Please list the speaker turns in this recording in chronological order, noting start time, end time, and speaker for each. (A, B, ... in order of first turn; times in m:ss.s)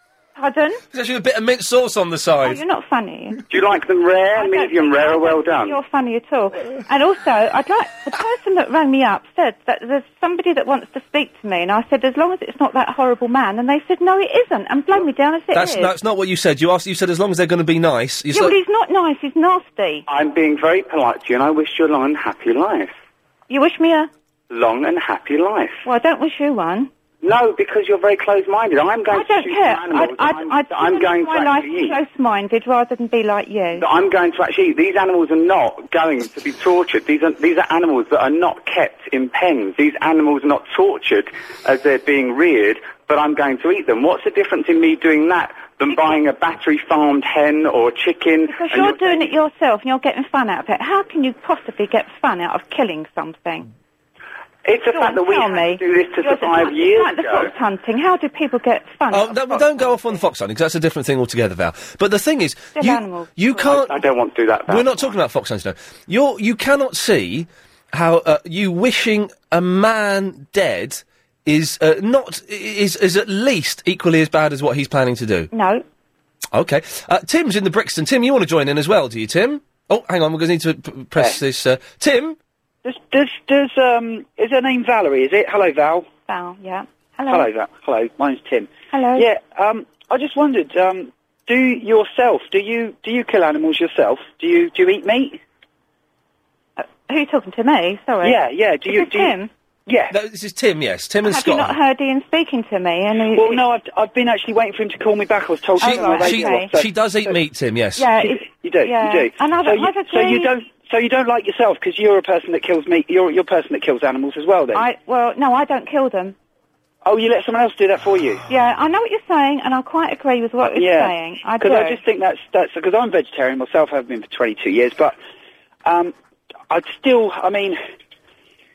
0:00.3-0:00.8 A
0:00.9-0:02.6 B
0:02.4-0:03.4 A
0:03.5-0:05.8 C
0:04.3-0:15.9 A
0:15.5-0:18.6 B
0:18.3-0:20.0 A
0:20.1-0:22.9 C
0:23.5-0:24.1 A
0:24.5-0:25.8 C
0:25.8-0:26.9 A
0:27.2-0:32.0 C
0:29.1-0:33.8 A
0:33.8-0:49.3 C
0:48.5-0:53.7 A
0:54.6-0:57.5 C
0:54.9-1:00.2 A
0:59.1-1:04.0 B
1:02.8-1:03.7 A
1:03.6-1:05.0 C
1:04.7-1:15.5 B
1:15.5-1:15.8 A
1:16.5-1:22.4 B
1:22.8-1:26.1 D
1:26.3-1:27.5 A
1:27.3-1:35.4 D
1:28.9-1:29.3 A
1:36.8-1:39.5 A
1:38.2-1:39.3 D
1:39.9-1:40.1 D
1:40.1-1:41.8 B
1:41.2-1:43.6 A
1:43.3-1:47.3 D
1:45.8-1:46.7 A
1:45.8-1:48.1 B
1:48.0-1:50.5 A
1:48.2-1:54.8 D
1:54.7-1:56.4 A
1:57.0-1:58.4 D
1:58.5-2:02.0 A
2:00.6-2:05.2 D
2:05.8-2:06.1 D
2:06.7-2:07.8 D